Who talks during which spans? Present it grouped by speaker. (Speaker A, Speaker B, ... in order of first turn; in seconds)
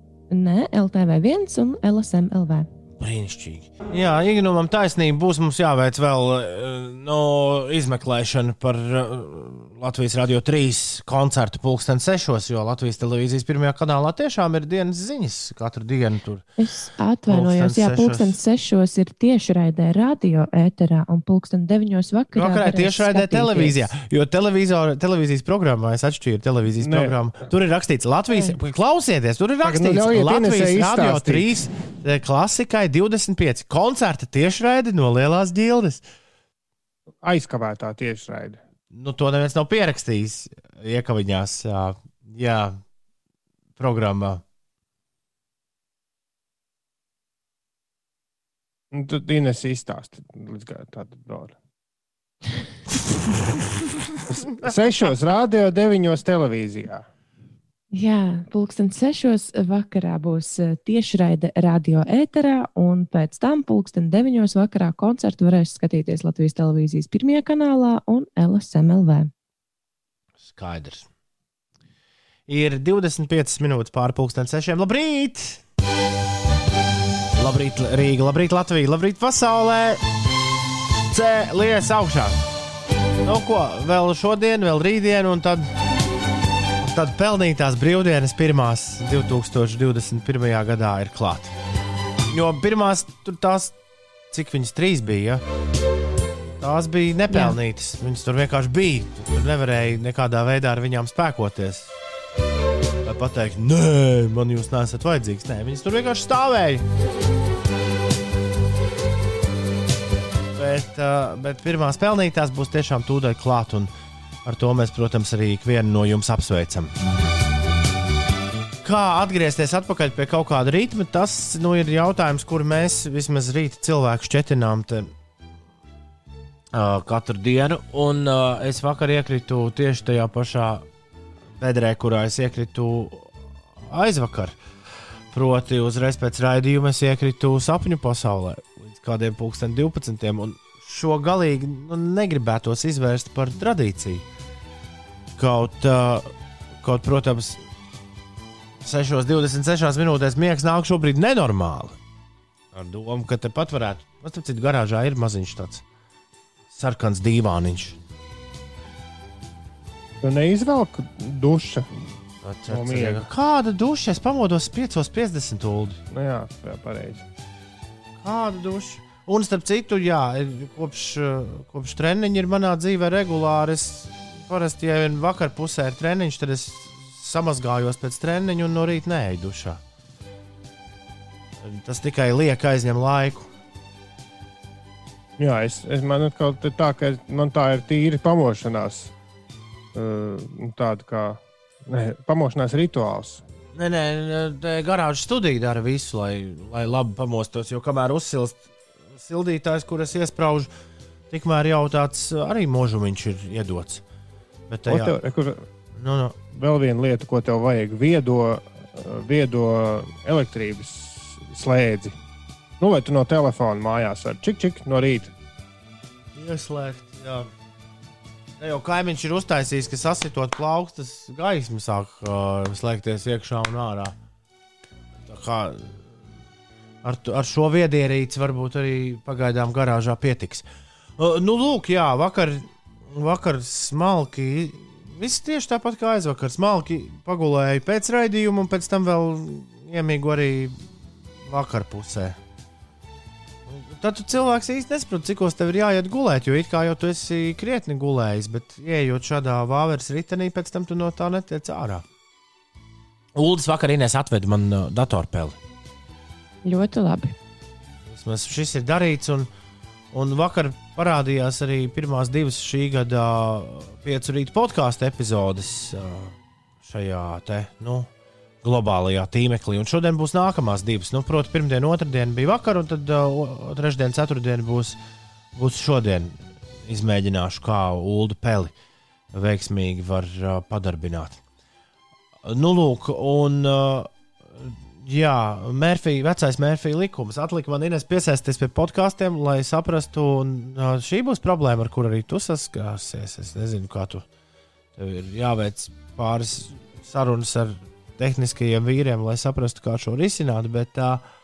Speaker A: 0.3-2.7, 16.6-23.8, 57.9-69.3, 97.3-97.5, 256.6-257.3
Speaker B: 3.0-16.4, 17.3-18.4, 22.3-36.0, 38.9-42.8, 43.8-44.4, 70.4-71.1, 72.5-75.6, 77.3-80.0, 81.1-82.4, 83.2-85.7, 86.8-91.5, 92.3-93.7, 94.3-95.4, 96.6-101.9, 103.0-106.8, 110.5-113.9, 114.4-116.9, 118.8-125.1, 126.7-130.8, 131.6-133.3, 133.9-134.6, 135.3-144.2, 145.4-146.3, 146.8-147.6, 148.8-151.9, 152.7-155.8, 156.7-158.0, 162.4-166.0, 168.2-179.8, 181.6-183.5, 193.7-198.6, 199.1-200.7, 201.3-204.0, 204.7-205.1, 206.0-206.4, 216.3-217.5, 218.6-224.1, 225.3-226.0, 227.0-230.7, 231.2-240.8, 241.5-242.4, 243.7-252.0, 253.3-255.6, 258.1-259.5, 260.1-266.3, 266.8-268.1, 268.6-275.0, 275.6-278.7, 279.3-281.4, 282.4-294.2, 295.0-301.2
Speaker C: 26.8-27.1, 29.6-31.6, 37.2-38.6, 48.9-51.5, 54.3-57.0, 160.2-161.9, 162.7-163.3, 166.1-167.2, 185.4-189.1, 189.9-193.4, 204.9-205.6, 206.5-212.2, 212.8-215.3